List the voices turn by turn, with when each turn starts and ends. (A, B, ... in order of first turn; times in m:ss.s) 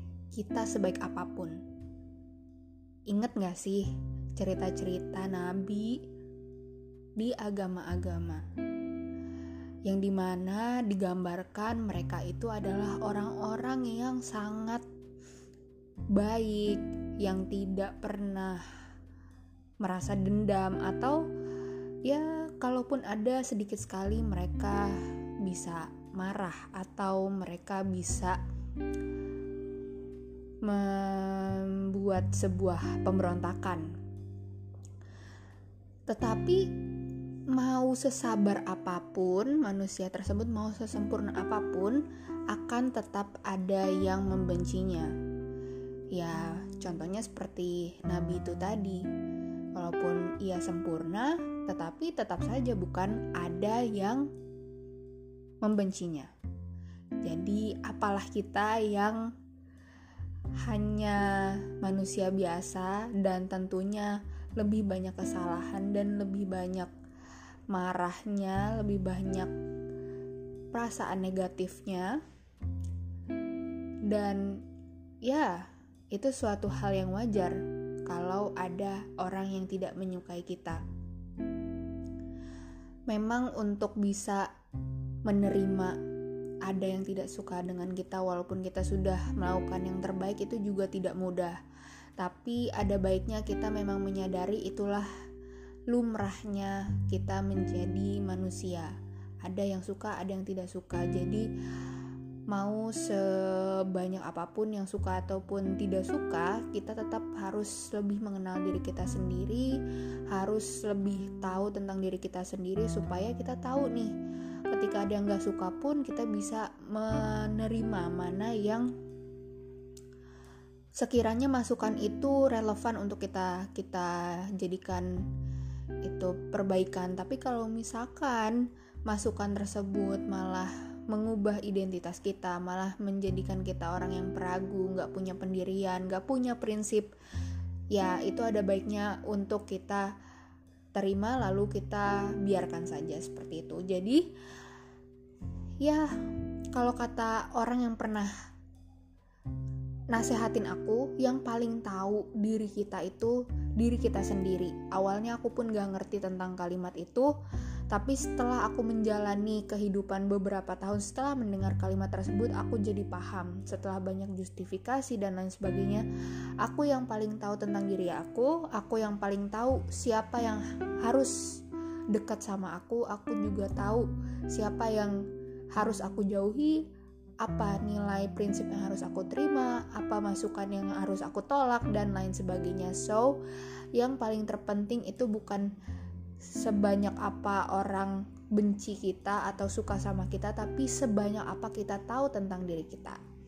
0:00.3-0:01.6 A
0:03.1-0:06.0 A
0:07.2-0:08.4 A
0:09.8-0:14.8 A
0:16.1-0:18.7 A
0:19.8-0:21.2 A
0:22.1-0:28.4 A
0:30.6-0:33.9 A
0:36.1-0:36.7 A
0:37.5-0:45.1 A
0:46.1-0:49.0 A
0:49.8-0:54.3 A
0:55.6-0:56.3 A
0:57.2-0:59.3 A
1:00.6-1:06.9 A
1:07.7-1:09.5 A
1:10.7-1:12.2 A
1:14.1-1:14.6 A
1:15.2-1:20.8 A
1:23.1-1:24.5 A
1:25.3-1:26.0 A
1:26.6-1:31.6 A
1:32.2-1:35.1 A
1:35.9-1:41.5 A
1:42.5-1:49.8 A
1:50.3-1:54.1 A
1:54.7-1:58.9 A
2:01.0-2:05.2 A
2:06.0-2:17.1 A
2:17.9-2:20.1 A
2:20.9-2:24.2 A
2:25.8-2:26.1 A
2:26.7-2:28.3 A
2:30.1-2:37.3 A
2:37.9-2:46.0 A
2:46.6-2:51.6 A
2:52.1-2:55.2 A
2:55.8-2:56.8 A
2:57.4-3:03.4 A
3:03.9-3:05.7 A
3:06.4-3:13.2 A